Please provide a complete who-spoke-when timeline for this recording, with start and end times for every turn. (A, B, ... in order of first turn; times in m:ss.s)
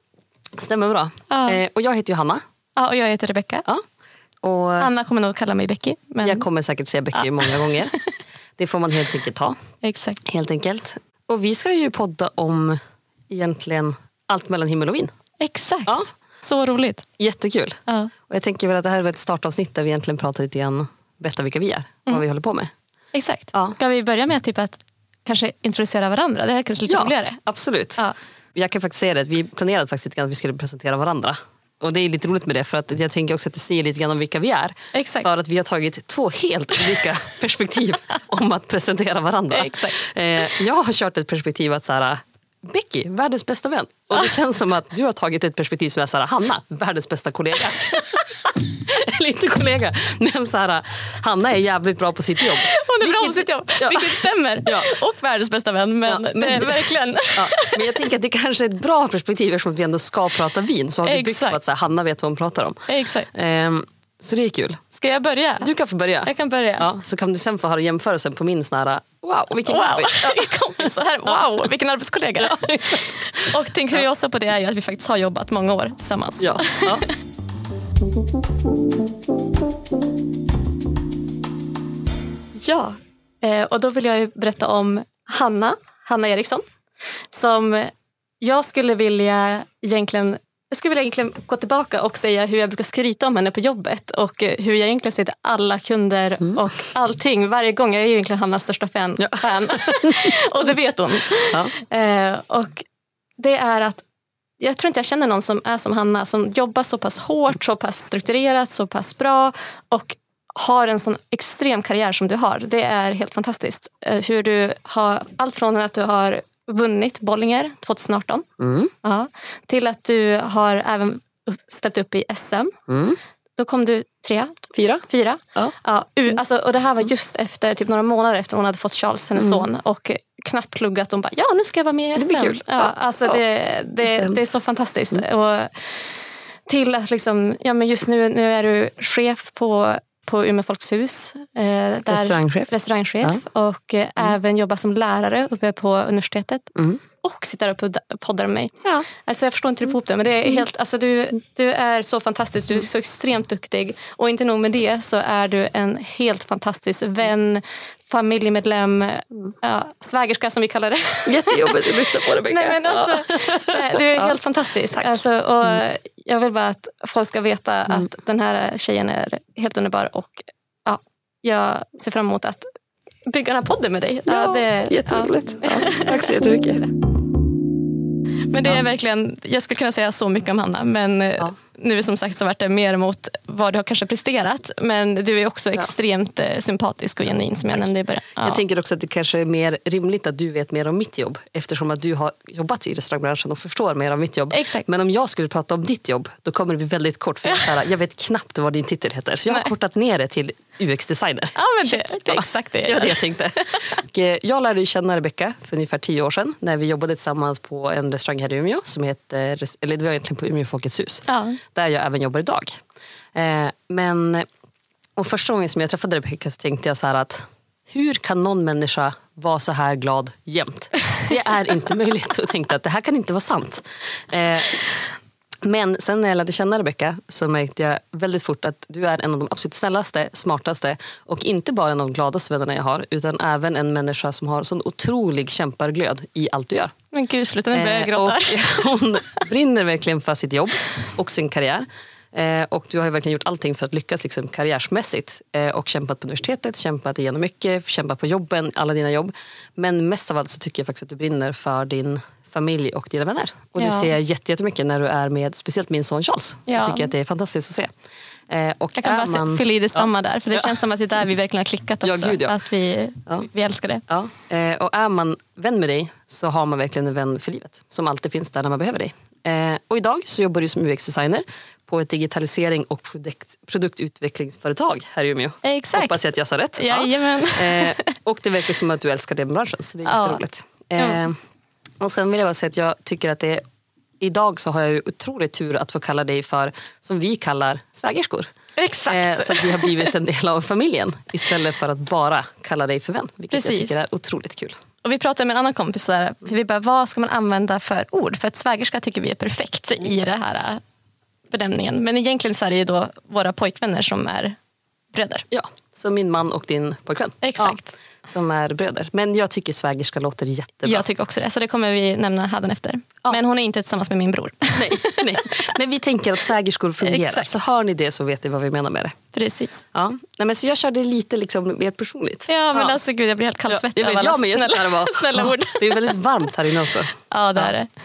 0:00.6-0:02.4 A
0:01.3-0:01.6 B
0:02.8-0:03.7 B
0:04.4-0:04.9 A
0:04.8-0:06.4 B
0:06.2-0:07.9 A
0:07.1-0:08.0 B
0:08.6-0:09.6 A
0:09.8-0:10.2 B
0:10.2-0:15.1 A
0:15.4-0:17.0 B
0:17.2-0:22.7 A
0:17.9-0:18.1 B
0:23.1-0:27.4 B
0:26.9-0:28.0 A
0:28.5-0:55.0 A
0:34.9-0:35.3 B
0:39.5-0:40.0 B
0:52.5-0:58.1 B
0:56.0-1:04.8 A
1:01.0-1:01.6 B
1:02.9-1:03.3 B
1:04.9-1:05.7 B
1:05.6-1:11.4 A
1:06.2-1:06.9 B
1:09.6-1:17.1 B
1:12.4-1:14.0 A
1:16.4-1:17.1 A
1:22.5-1:26.6 B
1:27.3-1:42.8 B
1:39.2-1:40.4 A
1:43.4-1:44.0 B
1:44.6-1:58.5 B
1:58.6-1:58.9 A
1:59.0-2:02.7 B
2:02.9-2:03.2 A
2:03.6-2:15.7 B
2:04.7-2:05.0 A
2:09.4-2:09.6 A
2:12.2-2:13.4 A
2:14.0-2:14.4 A
2:16.7-2:52.6 B
2:22.1-2:22.7 A
2:41.2-2:44.3 A
2:44.9-2:45.8 A
2:53.2-2:56.4 B
2:54.3-2:56.9 A
2:58.5-3:08.6 B
3:08.4-3:32.8 A
3:14.5-3:14.8 B
3:21.5-3:23.2 B
3:31.3-3:31.6 B
3:33.3-3:34.4 A
3:35.2-3:44.8 A
3:45.6-3:56.9 A
3:57.1-3:59.4 B
3:57.7-4:17.9 A
4:13.8-4:14.1 B
4:16.7-4:17.1 B
4:18.5-4:20.8 A
4:19.0-4:24.0 B
4:22.0-4:22.6 A
4:24.1-4:41.4 A
4:35.6-4:36.2 B
4:36.8-4:38.2 B
4:40.0-4:40.4 B
4:42.0-4:43.6 A
4:44.2-4:48.5 A
4:48.8-4:50.1 B
4:49.1-4:54.8 A
4:53.5-4:54.0 B
4:55.0-5:00.8 B
5:01.5-5:04.6 B
5:05.1-5:05.4 B
5:05.5-5:11.0 A
5:07.4-5:07.9 B
5:10.8-5:15.5 B
5:14.7-5:19.2 A
5:17.0-5:17.5 B
5:19.3-5:19.8 B
5:19.9-5:23.0 A
5:22.5-5:26.1 B
5:23.7-5:27.7 A
5:27.3-5:27.9 B